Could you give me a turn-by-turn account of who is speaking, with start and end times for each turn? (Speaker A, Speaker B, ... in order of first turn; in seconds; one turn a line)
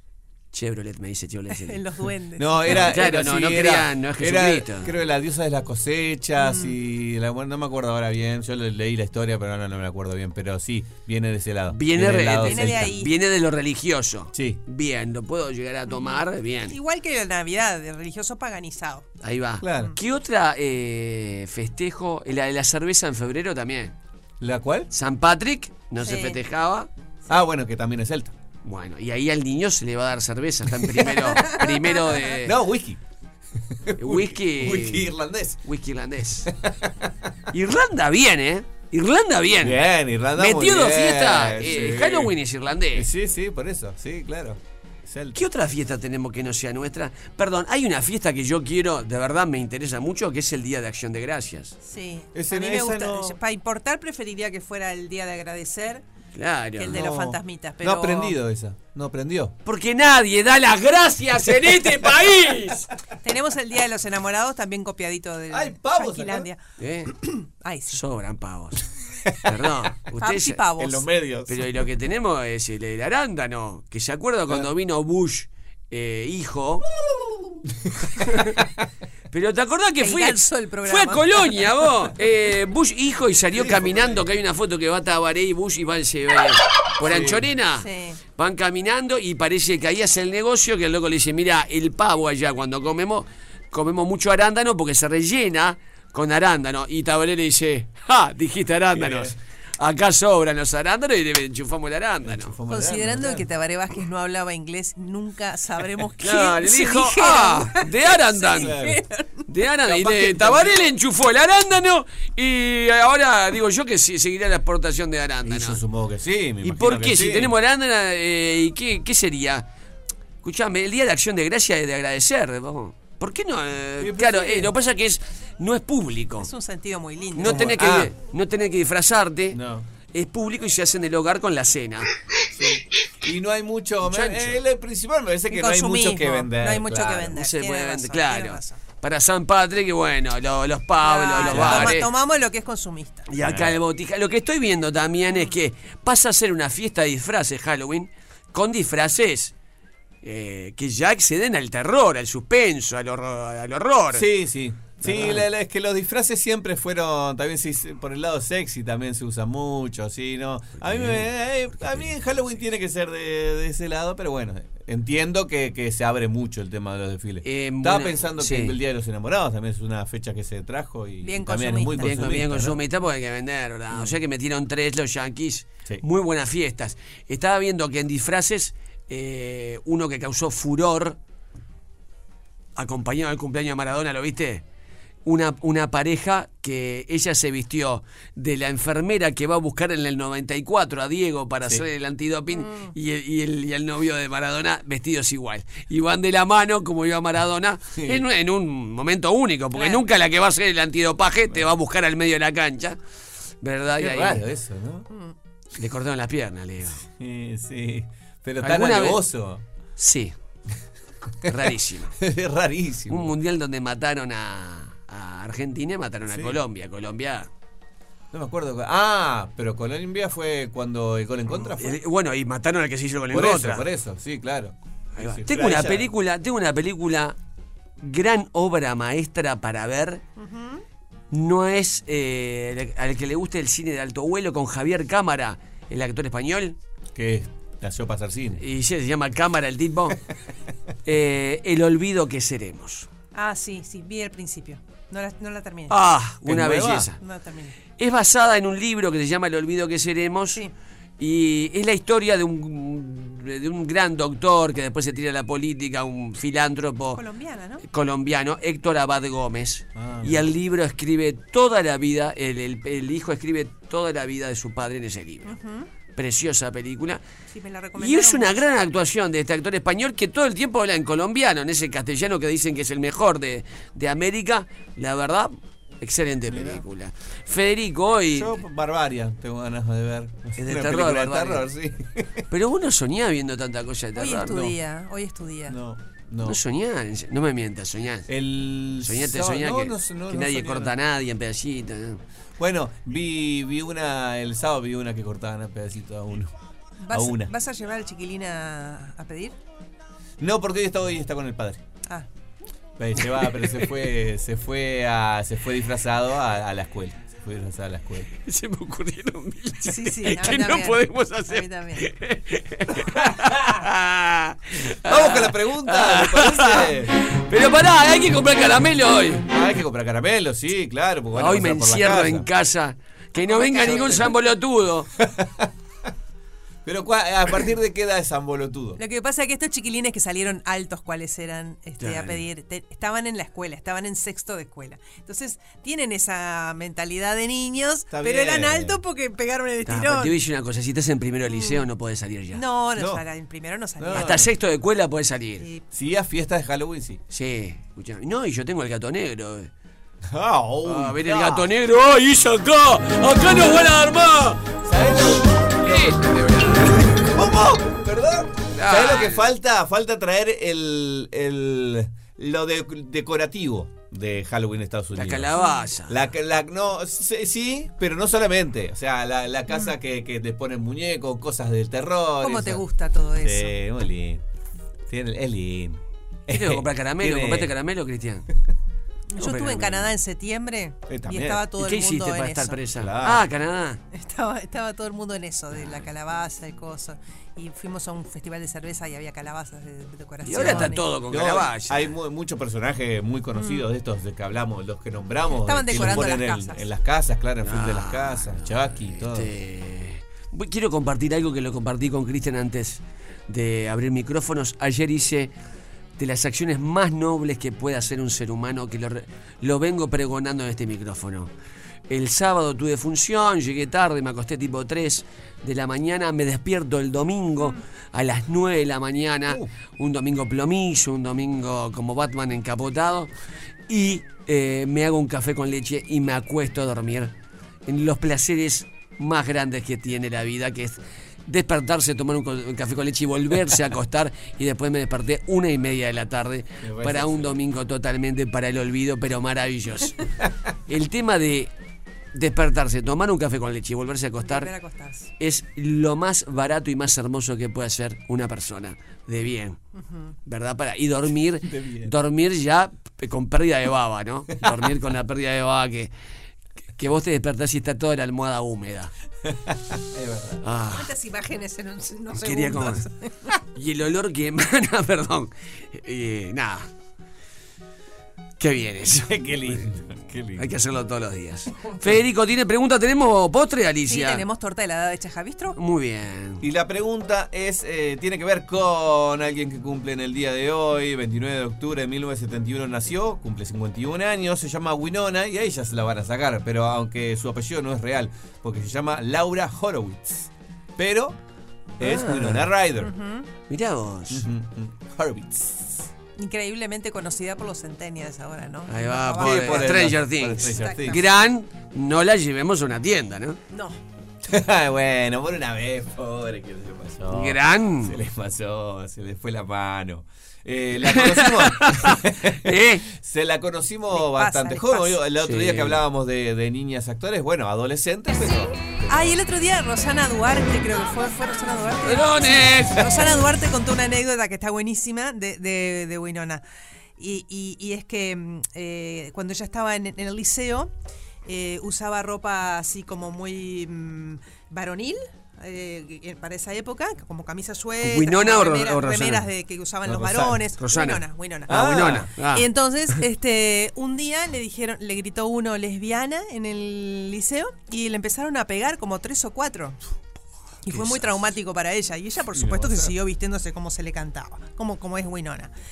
Speaker A: 0.5-1.8
Speaker B: 1.5-2.9
Speaker C: 2.4-12.9
Speaker A: 2.7-4.9
Speaker B: 6.4-6.7
Speaker A: 11.7-16.8
Speaker B: 12.4-13.1
Speaker B: 15.9-19.1
Speaker A: 19.2-23.9
Speaker C: 19.6-19.9
Speaker C: 24.4-24.9
Speaker A: 24.9-26.9
Speaker B: 26.0-26.4
Speaker C: 27.3-28.3
Speaker A: 28.6-32.6
Speaker C: 32.5-33.0
Speaker C: 33.9-35.6
Speaker A: 34.0-35.1
Speaker A: 35.6-36.5
Speaker C: 36.5-36.7
Speaker A: 37.5-39.8
Speaker C: 39.6-42.3
Speaker A: 40.4-43.1
Speaker C: 42.9-45.4
Speaker A: 45.4-51.8
Speaker B: 51.8-56.0
Speaker C: 52.3-53.4
Speaker A: 56.4-57.0
Speaker B: 56.8-58.4
Speaker C: 56.9-59.5
Speaker A: 59.6-62.9
Speaker B: 63.2-66.6
Speaker C: 65.5-66.5
Speaker A: 66.8-67.1
Speaker B: 67.2-68.0
Speaker A: 67.9-68.8
Speaker A: 69.4-70.6
Speaker B: 70.2-71.1
Speaker C: 70.8-71.6
Speaker A: 71.5-76.9
Speaker C: 78.1-78.5
Speaker A: 79.3-87.9
Speaker B: 80.0-81.4
Speaker C: 83.5-84.2
Speaker C: 87.1-87.5
Speaker B: 87.8-88.2
Speaker A: 88.4-102.6
Speaker C: 99.0-99.3
Speaker C: 102.2-103.4
Speaker B: 102.7-109.3
Speaker A: 106.2-108.8
Speaker C: 108.5-109.0
Speaker A: 109.5-115.8
Speaker C: 109.8-110.9
Speaker C: 115.5-117.5
Speaker A: 116.6-119.7
Speaker A: 120.4-126.5
Speaker C: 124.0-124.7
Speaker B: 126.4-127.8
Speaker A: 127.3-129.6
Speaker C: 127.4-128.1
Speaker C: 129.5-129.9
Speaker A: 130.1-132.1
Speaker C: 132.5-137.3
Speaker A: 134.0-134.6
Speaker B: 135.5-138.8
Speaker A: 137.3-142.1
Speaker B: 141.0-143.3
Speaker C: 141.4-142.0
Speaker A: 143.3-149.5
Speaker C: 143.4-143.8
Speaker A: 150.2-154.3
Speaker C: 154.1-172.8
Speaker A: 155.0-155.5
Speaker A: 160.8-162.6
Speaker A: 167.4-168.8
Speaker B: 171.2-172.3
Speaker A: 172.0-181.2
Speaker A: 182.8-184.6
Speaker A: 185.2-203.0
Speaker B: 192.5-192.9
Speaker C: 198.0-198.2
Speaker B: 199.8-200.0
Speaker A: 203.6-204.4
Speaker C: 204.0-205.1
Speaker A: 205.8-207.0
Speaker C: 207.1-209.6
Speaker A: 208.6-209.2
Speaker A: 210.0-210.3
Speaker A: 211.5-212.2
Speaker C: 212.2-213.3
Speaker A: 213.1-217.5
Speaker C: 216.3-216.6
Speaker C: 218.3-222.0
Speaker A: 221.5-223.9
Speaker C: 223.3-226.1
Speaker A: 225.2-227.4
Speaker A: 228.0-230.2
Speaker B: 230.4-230.8
Speaker A: 231.3-236.8
Speaker C: 237.2-238.6
Speaker A: 238.6-240.2
Speaker A: 241.1-243.1
Speaker B: 243.3-246.0
Speaker A: 245.9-247.2
Speaker C: 246.5-247.1
Speaker B: 247.2-247.8
Speaker A: 248.0-250.6
Speaker A: 251.2-257.2
Speaker B: 257.1-257.8
Speaker A: 257.8-265.6
Speaker C: 260.0-260.4
Speaker B: 265.5-265.9
Speaker A: 266.1-267.2
Speaker B: 267.5-268.7
Speaker A: 268.0-278.6
Speaker C: 276.5-276.8
Speaker C: 278.3-282.4
Speaker A: 280.6-281.7
Speaker A: 282.5-284.6
Speaker B: 284.2-285.8
Speaker C: 284.5-284.8
Speaker C: 285.7-286.6
Speaker A: 286.4-288.3
Speaker C: 288.3-290.9
Speaker A: 289.0-292.2
Speaker C: 292.6-296.5
Speaker B: 297.0-299.6
Speaker C: 297.1-297.5
Speaker C: 300.4-301.8
Speaker C: 303.0-308.3
Speaker A: 303.6-303.9
Speaker A: 308.5-319.5
Speaker B: 309.9-312.1
Speaker C: 313.0-313.6
Speaker C: 315.1-317.2
Speaker C: 319.5-322.5
Speaker A: 321.3-325.1
Speaker B: 323.4-324.4
Speaker C: 323.8-324.2
Speaker C: 325.2-325.7
Speaker C: 326.9-329.0
Speaker B: 329.0-340.4
Speaker C: 332.0-332.3
Speaker C: 338.1-339.0
Speaker A: 339.9-342.6
Speaker B: 341.5-341.8
Speaker B: 342.5-344.4
Speaker C: 343.0-343.2
Speaker C: 344.0-344.5
Speaker A: 344.1-345.7
Speaker B: 345.6-345.8
Speaker C: 345.9-347.2
Speaker A: 347.3-349.7
Speaker C: 350.3-351.7
Speaker A: 350.9-354.6
Speaker C: 354.8-372.9
Speaker A: 355.8-357.0
Speaker A: 358.8-359.5
Speaker A: 365.1-366.2
Speaker B: 365.6-365.8
Speaker B: 372.4-373.8
Speaker C: 373.4-374.4
Speaker C: 375.1-377.7
Speaker A: 376.5-378.5
Speaker B: 379.3-382.8
Speaker A: 379.4-380.1
Speaker C: 381.1-381.6
Speaker A: 381.8-384.0
Speaker C: 382.9-383.5
Speaker B: 384.1-391.1
Speaker A: 390.4-392.1
Speaker C: 390.5-399.5
Speaker B: 393.6-393.9
Speaker B: 395.5-396.9
Speaker A: 395.9-396.2
Speaker A: 397.6-405.5
Speaker A: 406.2-411.5
Speaker A: 412.1-423.3
Speaker A: 423.9-427.3
Speaker A: 427.9-440.2
Speaker C: 436.8-437.5
Speaker A: 440.9-441.7
Speaker A: 442.3-444.7
Speaker B: 444.4-445.3
Speaker A: 445.4-449.8
Speaker B: 450.0-450.3
Speaker A: 450.5-456.1
Speaker C: 451.7-452.1
Speaker A: 457.0-459.1
Speaker C: 459.5-460.6
Speaker A: 460.6-461.1
Speaker B: 460.9-463.3
Speaker A: 462.3-463.1
Speaker A: 463.7-466.9
Speaker A: 468.6-469.8
Speaker C: 469.3-470.7
Speaker A: 470.6-474.4
Speaker B: 474.1-475.8
Speaker A: 475.8-476.6
Speaker C: 476.6-490.5
Speaker C: 491.0-491.4
Speaker A: 492.0-492.7
Speaker C: 492.0-493.1
Speaker B: 493.0-493.5
Speaker A: 493.7-494.4
Speaker C: 494.3-496.1
Speaker B: 496.4-501.3
Speaker A: 498.9-503.6
Speaker C: 499.4-501.2
Speaker B: 503.7-504.0
Speaker C: 504.4-519.3
Speaker A: 507.3-508.2
Speaker A: 511.0-513.0
Speaker B: 514.1-515.2
Speaker A: 515.4-516.0
Speaker B: 519.1-526.6
Speaker A: 522.0-523.1
Speaker B: 527.2-530.9
Speaker B: 531.5-542.0
Speaker A: 538.0-539.5
Speaker C: 540.0-540.6
Speaker A: 540.8-542.7
Speaker C: 541.7-542.3
Speaker B: 542.5-550.0
Speaker B: 550.9-555.7
Speaker A: 550.9-551.2
Speaker C: 552.6-553.1